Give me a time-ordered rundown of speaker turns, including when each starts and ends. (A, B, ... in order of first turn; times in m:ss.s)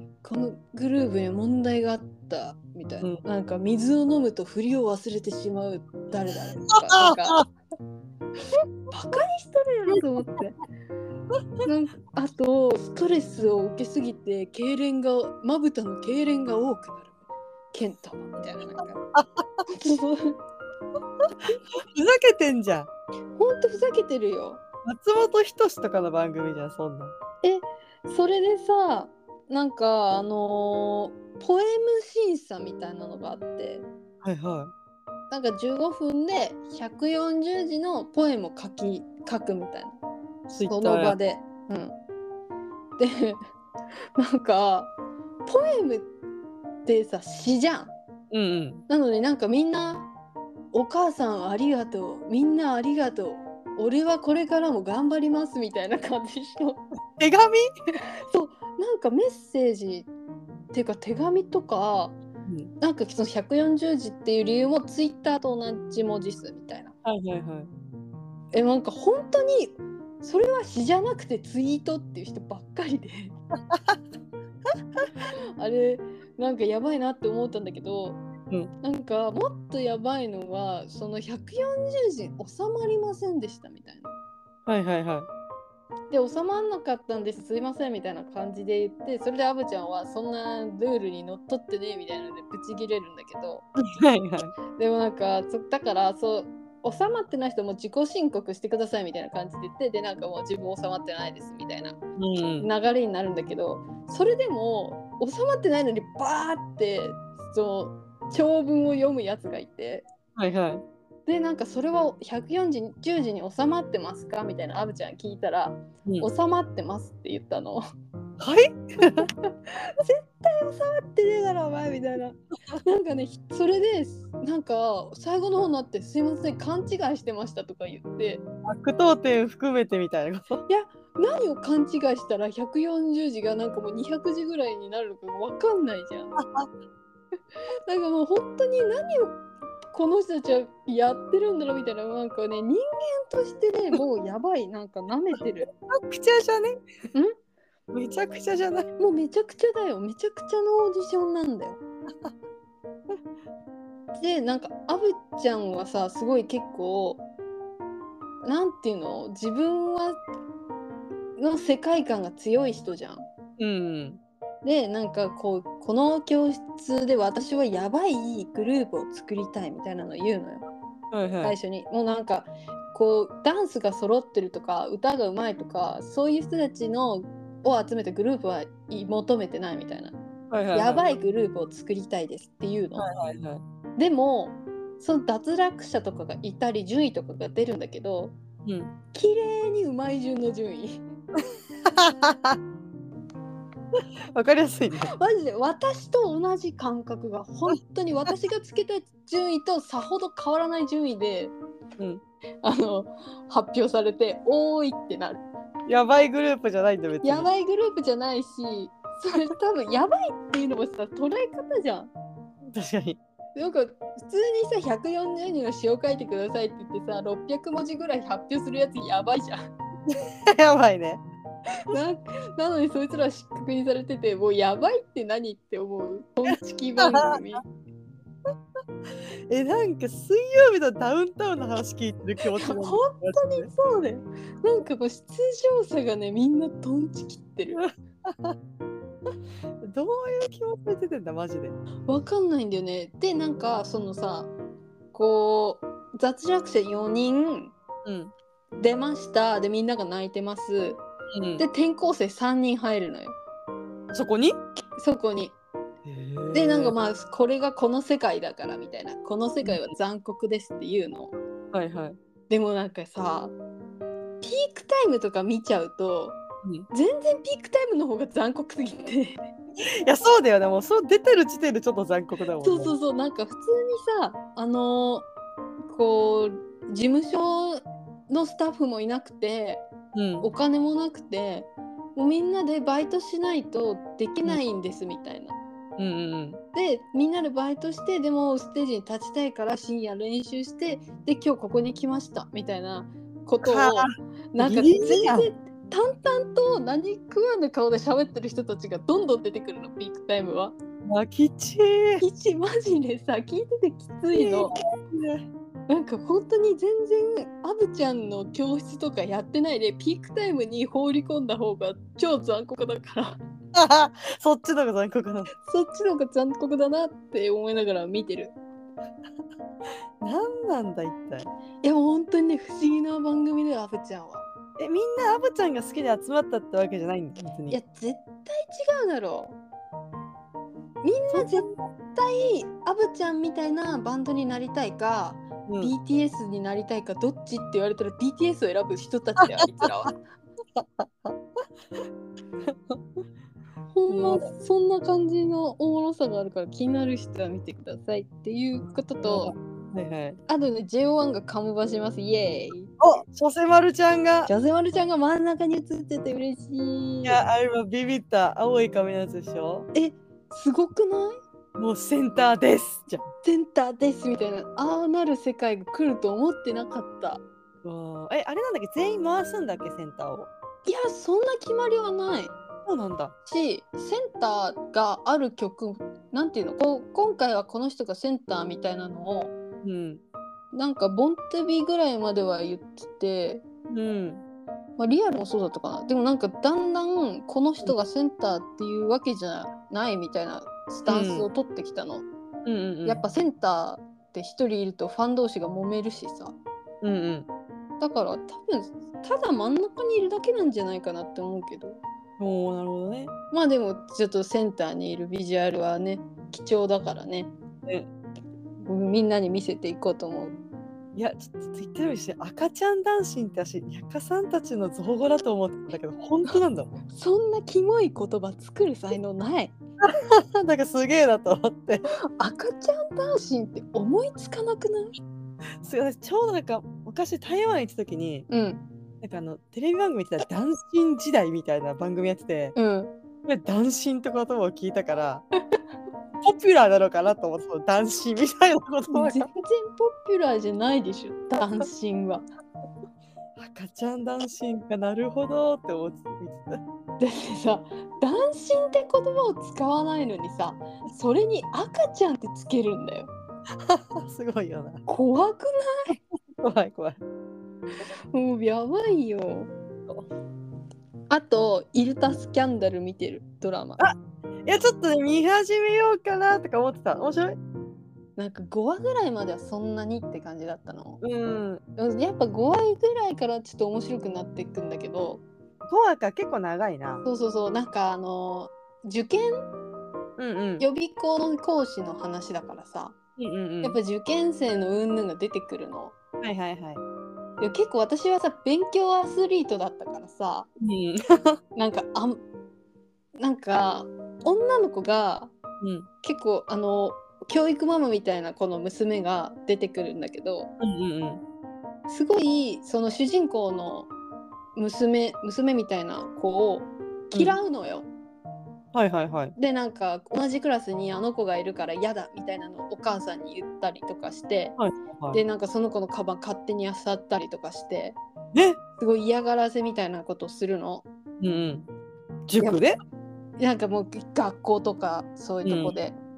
0:00.2-0:07.4 A
0:06.9-0:07.4 B
0:08.9-0:10.6 A
0:11.6-0:17.1 A
0:17.7-0:19.0 A
0:19.1-0:19.4 B
0:19.7-0:20.4 A
0:21.8-0:22.9 B
0:23.4-0:24.6 A
0:24.8-0:27.1 B
0:27.4-0:33.9 A
0:34.2-0:34.7 B
0:35.3-0:40.0 A
0:40.5-0:41.2 B
0:40.7-0:42.0 A
0:43.0-0:43.4 A
0:44.2-0:44.9 A
0:45.5-0:46.1 A
0:46.9-0:47.9 A
0:48.3-0:48.8 B
0:48.9-0:50.1 A
0:50.7-0:56.8 A
0:57.2-0:57.6 B
0:58.3-1:00.1 A
1:00.7-1:02.2 A
1:02.8-1:07.0 A
1:07.0-1:07.7 B
1:08.5-1:13.3 A
1:13.7-1:14.0 B
1:15.1-1:18.2 A
1:18.8-1:24.2 A
1:24.7-1:25.3 B
1:26.1-1:33.7 A
1:33.8-1:34.5 B
1:34.8-1:42.0 A
1:42.2-1:42.7 B
1:42.6-1:50.1 A
1:50.4-1:50.8 B
1:51.3-1:57.8 A
1:58.4-1:59.3 B
1:59.2-2:08.4 A
2:08.6-2:10.6 B
2:10.7-2:16.4 A
2:16.4-2:16.7 B
2:17.9-2:19.4 A
2:19.9-2:25.7 A
2:25.9-2:26.8 B
2:27.9-2:28.9 B
2:29.0-2:31.8 A
2:34.2-2:37.2 A
2:38.4-2:40.2 A
2:41.4-2:43.3 A
2:43.6-2:44.2 B
2:44.6-2:50.6 A
2:51.1-2:51.6 B
2:51.4-3:00.2 A
3:00.5-3:01.1 B
3:00.7-3:03.1 A
3:03.0-3:03.6 B
3:04.0-3:08.3 A
3:08.6-3:08.9 B
3:09.1-3:11.0 A
3:11.8-3:12.6 B
3:14.3-3:15.1 B
3:15.0-3:21.5 A
3:22.6-3:25.4 A
3:25.9-3:27.5 B
3:27.2-3:32.1 A
3:32.7-3:33.2 B
3:33.6-3:39.6 A
3:40.1-3:41.2 B
3:41.9-3:47.6 A
3:46.5-3:47.4 B
3:49.5-3:53.7 B
3:52.5-3:57.8 A
3:57.7-3:58.6 B
3:59.8-4:01.8 B
4:02.1-4:04.5 A
4:05.1-4:07.7 A
4:08.0-4:08.3 B
4:08.8-4:11.0 A
4:11.3-4:11.6 B
4:11.6-4:13.4 A
4:14.1-4:14.6 B
4:15.0-4:15.6 A
4:16.0-4:17.0 B
4:16.5-4:21.3 A
4:21.7-4:22.2 B
4:22.5-4:23.6 A
4:24.4-4:26.4 A
4:26.9-4:29.4 A
4:30.0-4:32.9 B
4:32.6-4:35.3 A
4:35.9-4:39.8 A
4:40.2-4:40.5 B
4:40.4-4:45.6 A
4:46.0-4:46.6 B
4:46.7-5:00.8 A
4:53.6-4:55.5 B
5:01.0-5:02.2 B
5:02.2-5:04.8 A
5:04.4-5:05.5 B
5:05.9-5:13.4 A
5:13.7-5:15.5 B
5:15.6-5:18.5 A
5:20.2-5:21.5 B
5:21.8-5:24.5 A
5:24.8-5:27.8 B
5:27.7-5:29.6 A
5:31.0-5:40.2 A
5:31.3-5:31.8 B
5:35.7-5:35.9 B
5:39.4-5:40.1 B
5:40.8-5:41.4 B
5:42.7-5:43.0 B
5:43.9-5:49.5 A
5:44.1-5:44.5 B
5:49.2-5:50.4 B
5:50.5-5:53.0 A
5:53.0-5:54.5 B
5:54.5-5:57.4 A
5:57.2-5:59.9 B
5:59.9-6:01.4 A
6:01.8-6:03.3 B
6:03.4-6:07.4 A
6:07.8-6:10.5 B
6:10.9-6:12.5 A
6:12.9-6:13.3 B
6:13.4-6:19.5 A
6:19.8-6:20.2 B
6:20.7-6:23.6 A
6:23.9-6:24.4 B
6:25.0-6:32.3 A
6:31.1-6:31.5 B
6:32.6-6:33.2 B
6:33.0-6:36.6 A
6:37.0-6:37.5 B
6:38.0-6:42.0 A
6:42.4-6:43.3 B
6:43.5-6:47.5 A
6:48.8-6:50.6 A
6:51.2-6:56.9 B
6:57.1-6:59.7 A
7:00.0-7:02.0 B
7:02.4-7:05.2 A
7:05.8-7:08.5 B
7:08.5-7:08.8 A
7:09.2-7:12.8 B
7:12.8-7:13.1 A
7:13.4-7:15.4 B
7:16.4-7:19.5 B
7:19.1-7:22.4 A
7:23.6-7:26.8 B
7:27.2-7:33.3 A
7:33.8-7:35.0 B
7:35.1-7:36.2 A
7:36.6-7:37.2 B
7:38.3-7:39.7 A
7:41.3-7:44.0 A
7:44.0-7:47.6 B
7:48.4-7:51.2 A
7:51.2-7:51.8 B
7:52.0-7:55.4 A
7:55.9-7:57.2 B
7:57.2-7:59.6 A
8:00.4-8:00.8 B
8:00.8-8:03.2 A
8:03.4-8:04.0 B
8:03.8-8:06.2 A
8:06.4-8:07.0 B
8:07.6-8:10.7 A
8:10.8-8:11.6 B
8:11.8-8:12.4 A
8:13.4-8:15.5 A
8:15.8-8:16.1 B
8:16.2-8:20.7 A
8:20.8-8:21.4 B
8:22.1-8:24.1 A
8:24.8-8:28.1 A
8:28.9-8:29.5 B
8:29.6-8:34.8 A
8:34.8-8:35.4 B
8:35.3-8:38.2 A
8:39.0-8:41.0 A
8:41.4-8:41.9 B
8:42.5-8:43.0 B
8:43.6-8:46.2 A
8:45.6-8:45.9 B